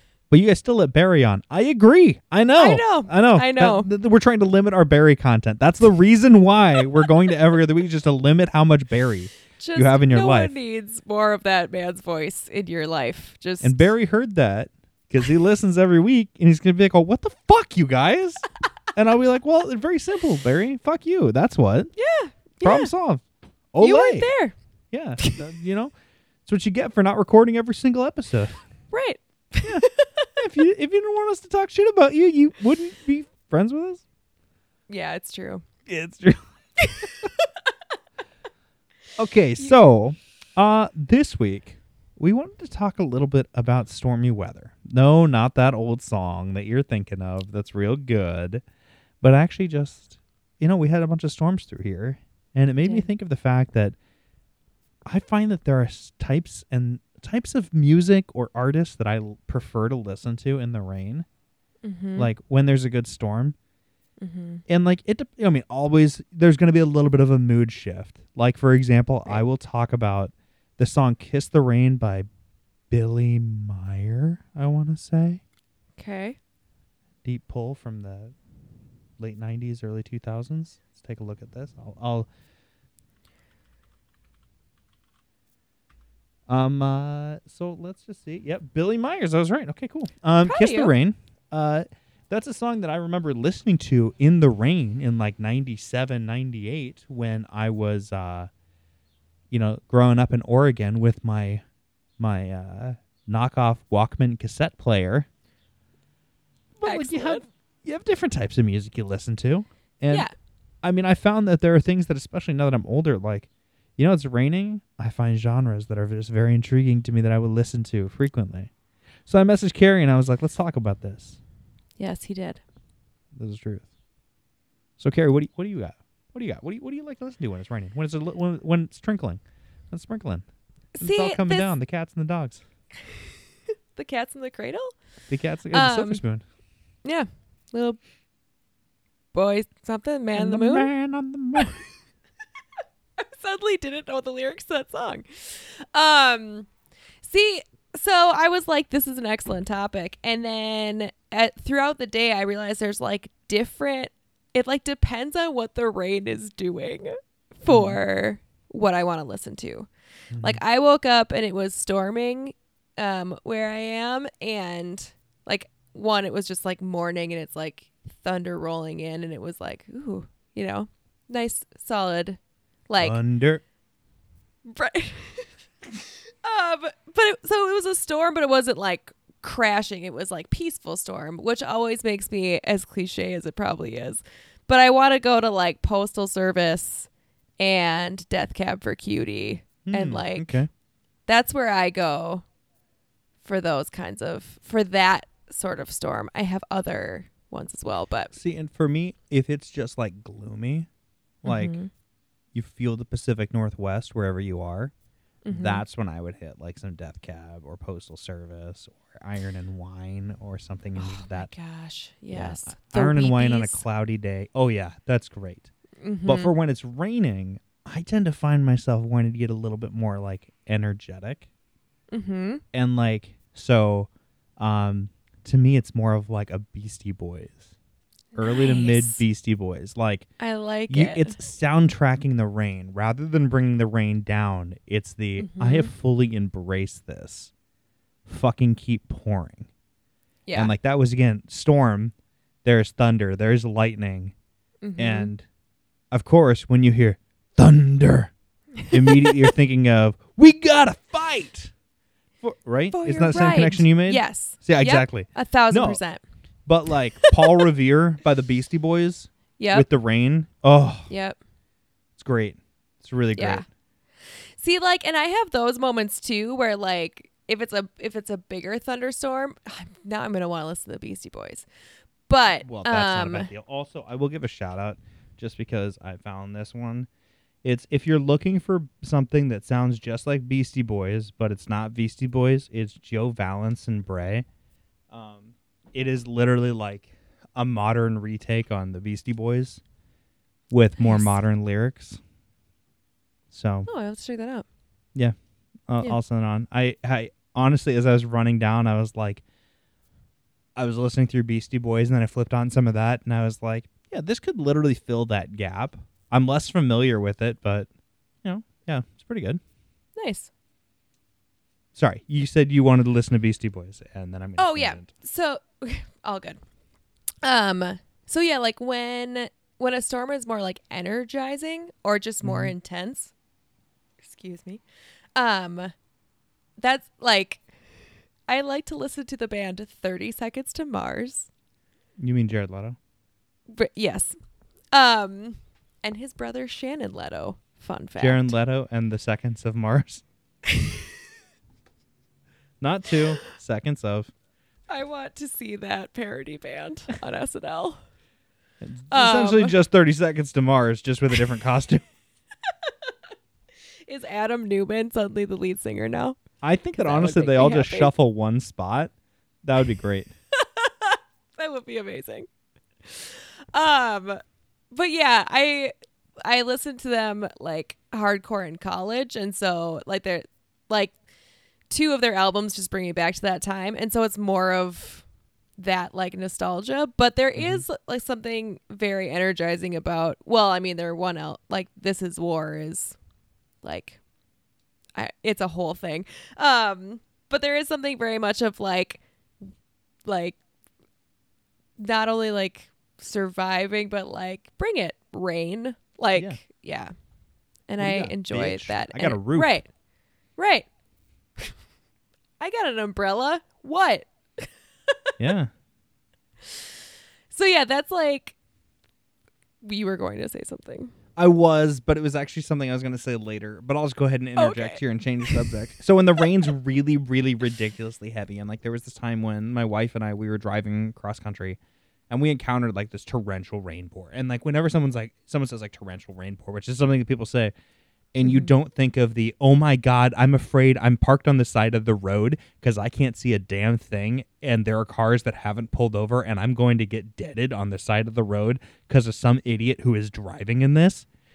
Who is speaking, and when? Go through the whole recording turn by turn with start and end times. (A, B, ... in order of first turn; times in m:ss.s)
0:00.3-0:10.6 A
0:02.6-0:03.9 B
0:09.6-0:13.9 B
0:13.6-0:21.9 A
0:22.0-0:22.9 B
0:22.6-0:24.3 A
0:23.8-0:24.6 B
0:24.9-0:25.9 A
0:26.5-0:28.6 A
0:28.9-0:30.3 B
0:29.6-0:34.0 A
0:34.9-0:35.6 B
0:35.9-0:36.4 A
0:36.8-0:37.1 B
0:39.2-0:48.6 A
0:49.2-0:54.0 A
0:55.1-1:01.3 A
1:01.8-1:02.3 B
1:02.2-1:03.6 A
1:04.2-1:04.6 B
1:04.7-1:12.3 A
1:12.9-1:15.4 A
1:16.0-1:16.4 B
1:17.2-1:18.3 A
1:19.2-1:22.3 A
1:26.5-1:38.5 A
1:30.4-1:30.9 B
1:39.5-1:41.6 A
1:42.2-1:45.3 A
1:46.8-1:50.3 A
1:46.8-1:47.4 B
1:50.8-1:58.7 A
1:59.3-2:01.4 A
2:02.0-2:02.6 B
2:03.4-2:03.9 A
2:05.0-2:12.6 A
2:11.0-2:11.8 B
2:14.0-2:14.9 B
2:15.3-2:16.4 A
2:15.7-2:16.2 B
2:17.0-2:18.0 B
2:19.3-2:20.9 B
2:20.3-2:21.8 A
2:23.2-2:26.7 B
2:27.2-2:39.9 B
2:37.7-2:38.0 A
2:40.3-2:40.6 A
2:40.4-2:53.2 B
2:53.0-2:53.6 A
2:54.7-2:55.5 B
2:56.4-3:07.1 B
3:07.6-3:10.6 B
3:09.9-3:10.7 A
3:11.3-3:12.4 B
3:13.4-3:18.3 B
3:18.3-3:20.9 A
3:21.4-3:21.8 A
3:21.5-3:21.9 B
3:22.5-3:24.9 A
3:25.4-3:25.8 B
3:25.5-3:31.5 A
3:31.0-3:33.8 B
3:32.3-3:35.7 A
3:36.0-3:36.5 B
3:36.2-3:41.5 A
3:42.1-3:42.6 B
3:42.7-3:47.7 A
3:48.4-3:49.2 B
3:48.4-3:50.3 A
3:50.4-3:51.4 B
3:50.9-3:57.5 A
3:55.4-3:55.9 B
3:58.3-3:59.7 A
4:00.5-4:00.7 B
4:00.5-4:04.3 A
4:04.8-4:05.3 B
4:05.0-4:05.4 A
4:06.1-4:08.3 A
4:08.8-4:09.4 B
4:08.9-4:11.7 A
4:12.4-4:16.0 A
4:12.9-4:16.2 B
4:16.7-4:21.1 A
4:19.6-4:19.9 B
4:21.1-4:21.4 B
4:22.2-4:23.6 A
4:23.4-4:23.6 B
4:24.6-4:31.7 B
4:32.3-4:33.5 B
4:32.6-4:37.1 A
4:37.6-4:44.4 A
4:45.1-4:49.8 A
4:50.7-4:52.2 A
4:51.0-4:51.4 B
4:53.5-4:53.9 A
4:53.9-4:54.6 B
4:55.9-4:59.4 A
5:00.8-5:07.9 A
5:08.4-5:09.6 A
5:10.2-5:10.5 B
5:12.0-5:15.1 A
5:14.6-5:16.6 B
5:17.4-5:23.3 B
5:22.4-5:22.7 A
5:24.2-5:24.8 B
5:25.4-5:25.9 B
5:26.8-5:27.6 B
5:28.5-5:31.5 B
5:32.2-5:33.0 A
5:33.7-5:34.3 B
5:34.9-5:38.5 B
5:38.2-5:40.2 A
5:40.7-5:41.0 B
5:42.8-5:44.3 A
5:44.9-5:48.0 B
5:48.8-5:52.0 A
5:49.1-5:49.8 B
5:54.1-5:56.4 B
5:56.6-5:59.1 A
5:57.0-5:58.1 B
5:59.6-6:00.3 A
6:00.6-6:02.5 B
6:03.0-6:04.4 B
6:04.9-6:05.9 B
6:06.4-6:11.1 B
6:11.9-6:15.2 B
6:15.8-6:23.2 B
6:17.6-6:17.8 A
6:23.8-6:24.2 B
6:25.2-6:29.2 B
6:30.2-6:30.6 B
6:32.0-6:37.1 B
6:36.4-6:36.6 A
6:37.9-6:39.9 B
6:38.0-6:39.8 A
6:40.6-6:40.9 B
6:42.6-6:45.3 B
6:45.4-6:45.7 A
6:47.5-6:48.6 B
6:49.8-6:51.1 B
6:51.4-7:01.8 A
6:54.6-6:55.6 B
7:02.3-7:07.7 A
7:08.3-7:21.2 A
7:08.4-7:08.7 B